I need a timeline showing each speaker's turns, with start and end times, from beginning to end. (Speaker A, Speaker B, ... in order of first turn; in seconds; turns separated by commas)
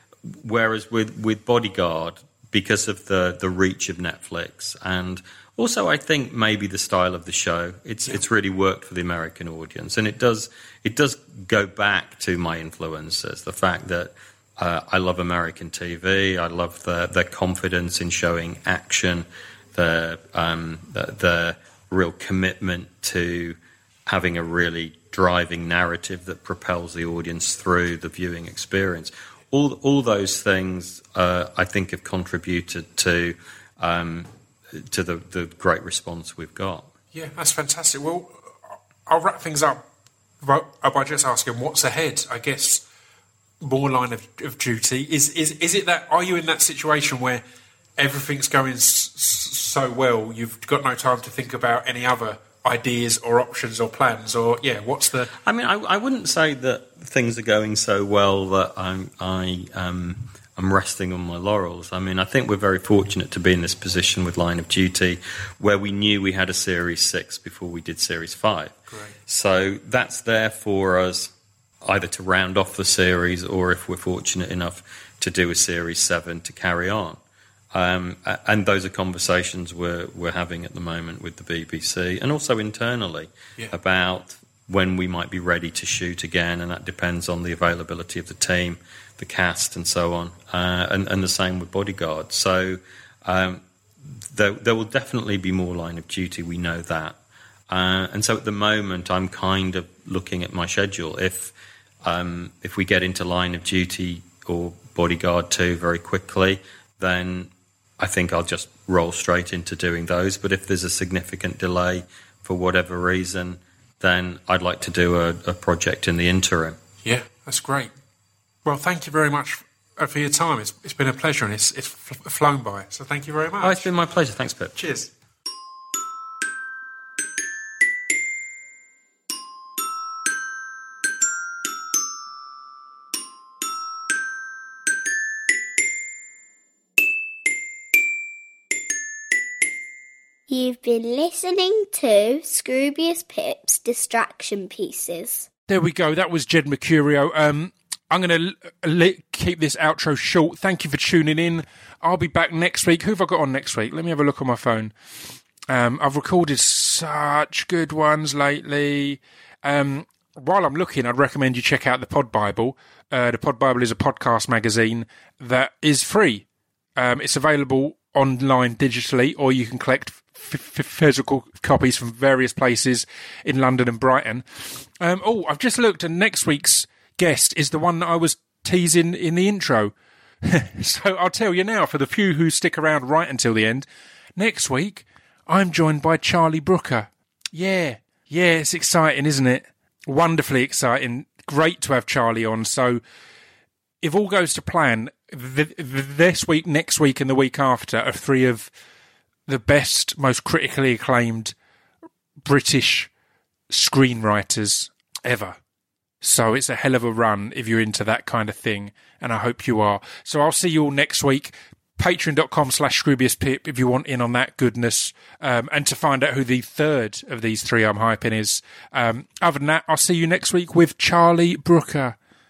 Speaker A: 0.2-36.9, Speaker B: 37.1-38.5, Speaker B: 39.0-39.8, Speaker B: 40.4-42.8, Speaker B: 43.6-47.4, Speaker B: 48.0-55.3, Speaker A: 55.4-68.7, Speaker B: 68.9-69.1, Speaker A: 69.3-77.2, Speaker A: 77.7-97.2, Speaker A: 97.7-116.8, Speaker B: 117.0-117.9, Speaker B: 118.6-123.9, Speaker A: 123.6-124.8, Speaker B: 124.8-125.1, Speaker C: 140.5-145.5, Speaker B: 145.7-154.9, Speaker B: 155.7-166.4, Speaker B: 167.0-174.4, Speaker B: 175.0-193.0, Speaker B: 194.0-198.7, Speaker B: 199.5-201.5, Speaker B: 202.4-203.1, Speaker B: 203.7-205.6, Speaker B: 206.2-222.2